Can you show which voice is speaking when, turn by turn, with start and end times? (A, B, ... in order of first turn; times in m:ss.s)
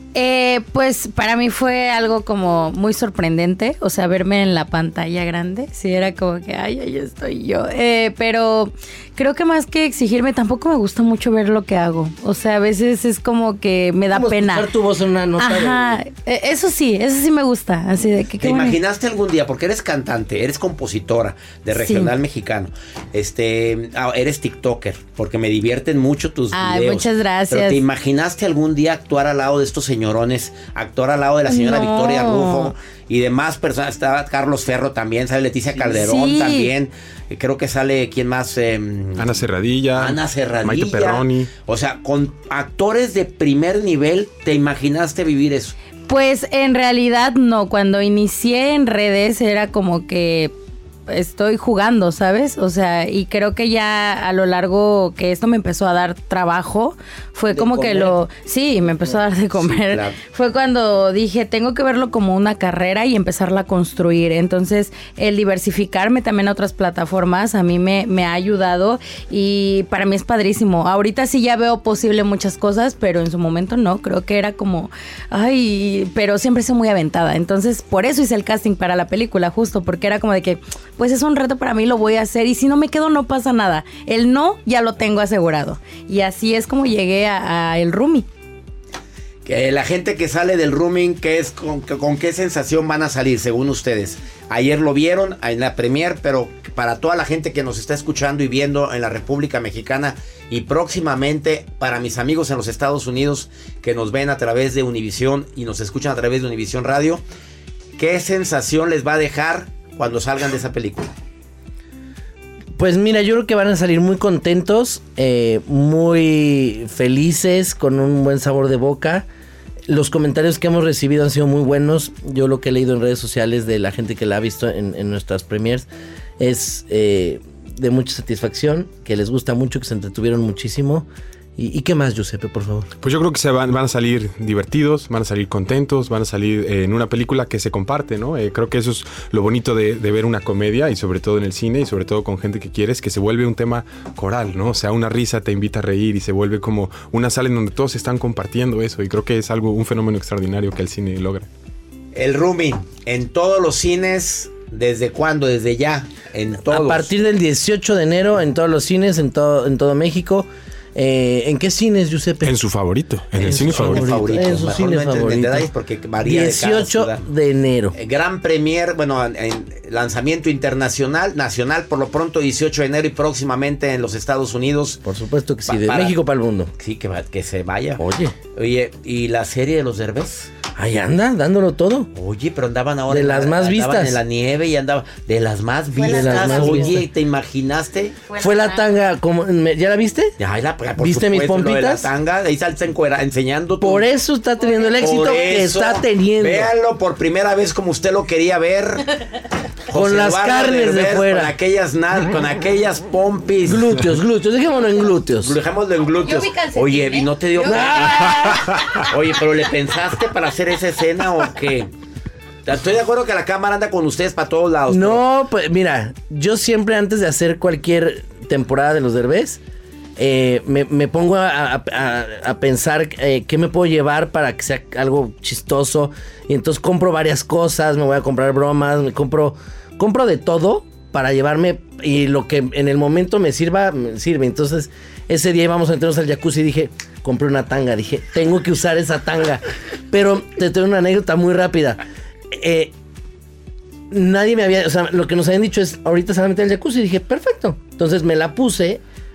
0:00.1-0:14.7 A
0:14.1-0:16.0 B
0:15.4-0:18.8 A
0:18.4-0:39.4 C
0:21.7-0:22.1 A
0:26.5-0:27.8 A
0:31.5-0:32.7 A
0:35.8-0:36.7 A
0:39.2-0:41.5 D
0:39.9-0:45.7 C
0:46.1-0:50.5 A
0:51.1-1:28.3 A
0:57.5-0:58.2 B
0:59.6-1:00.1 C
1:29.4-1:47.2 C
1:48.0-1:51.1 C
1:52.8-1:59.3 B
1:59.9-2:05.9 B
2:06.4-2:12.9 B
2:13.0-2:31.5 D
2:32.1-2:37.1 C
2:36.7-2:42.6 B
2:42.4-2:44.3 D
2:43.3-2:47.2 C
2:43.4-2:45.7 B
2:46.2-2:47.9 B
2:47.9-2:55.0 C
2:55.0-2:56.7 B
2:55.7-2:56.2 C
2:56.8-2:58.0 C
2:58.0-2:58.3 B
2:58.5-3:00.5 C
3:00.7-3:02.1 B
3:02.1-3:08.2 C
3:03.1-3:04.2 B
3:06.0-3:07.0 A
3:06.0-3:07.0 B
3:08.3-3:08.9 A
3:08.4-3:10.3 B
3:10.4-3:14.1 C
3:11.0-3:12.1 B
3:13.8-3:16.7 B
3:14.6-3:15.0 A
3:15.0-3:19.0 C
3:19.9-3:23.8 C
3:19.9-3:21.5 B
3:23.6-3:25.6 B
3:25.4-3:28.4 C
3:26.2-3:28.4 A
3:27.6-3:28.6 B
3:29.1-3:31.9 C
3:32.6-3:35.2 C
3:34.9-3:39.6 B
3:40.2-4:02.9 B
4:04.1-4:09.0 B